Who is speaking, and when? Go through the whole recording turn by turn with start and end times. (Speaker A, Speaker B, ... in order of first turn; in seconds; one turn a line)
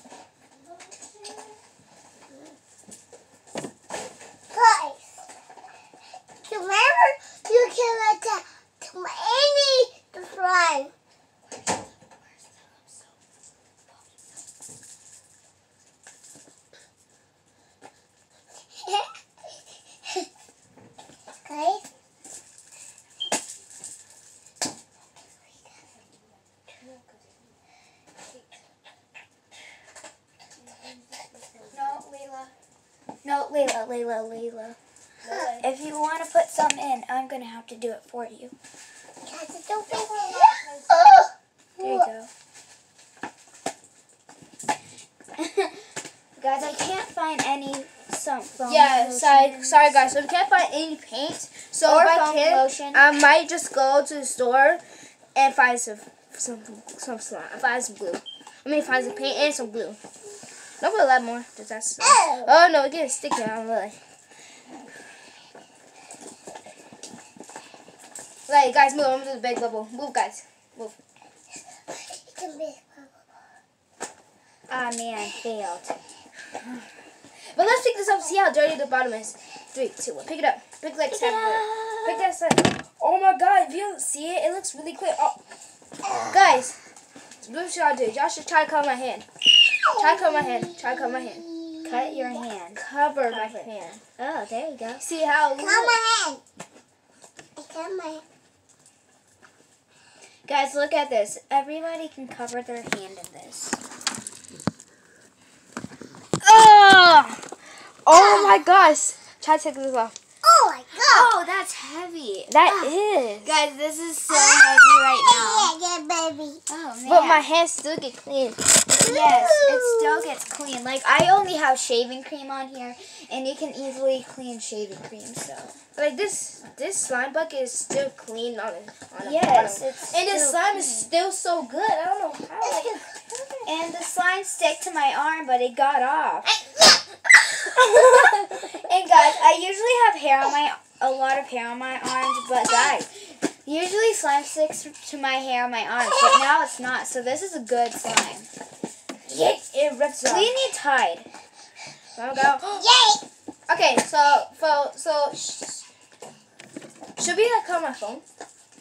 Speaker A: 4.5-5.2
Speaker A: 6.4-10.9
Speaker B: 11.7-12.9
Speaker A: 18.8-19.1
Speaker A: 21.4-21.9
Speaker C: 26.8-27.2
Speaker C: 30.6-32.0
Speaker B: 31.7-32.5
Speaker B: 33.2-34.8
Speaker C: 35.2-35.7
Speaker B: 35.6-38.5
Speaker A: 39.2-42.1
Speaker C: 39.9-40.9
Speaker B: 41.8-42.3
Speaker B: 45.4-45.9
Speaker B: 46.4-50.1
Speaker C: 48.6-54.8
Speaker B: 51.8-53.0
Speaker C: 55.3-60.0
Speaker C: 60.8-64.0
Speaker A: 62.0-62.5
Speaker C: 68.5-70.9
Speaker A: 71.7-73.1
Speaker B: 74.7-76.0
Speaker C: 77.5-85.3
Speaker B: 81.1-82.3
Speaker C: 86.2-86.8
Speaker C: 87.4-89.2
Speaker A: 89.9-92.4
Speaker C: 89.9-91.5
Speaker B: 91.8-95.0
Speaker C: 92.7-94.0
Speaker C: 95.0-96.0
Speaker A: 95.6-96.4
Speaker A: 97.6-98.2
Speaker B: 100.5-103.8
Speaker C: 106.4-110.2
Speaker A: 108.1-108.6
Speaker A: 110.4-111.3
Speaker B: 111.0-115.7
Speaker C: 112.5-113.6
Speaker A: 114.3-116.6
Speaker B: 116.7-117.5
Speaker C: 117.0-119.2
Speaker B: 119.0-125.8
Speaker A: 119.1-120.3
Speaker C: 126.0-133.7
Speaker B: 129.2-131.1
Speaker A: 132.6-133.0
Speaker B: 133.6-136.5
Speaker B: 137.6-148.5
Speaker C: 149.2-150.6
Speaker B: 150.2-151.3
Speaker C: 152.2-152.8
Speaker A: 152.8-153.2
Speaker C: 153.7-155.8
Speaker C: 157.2-158.2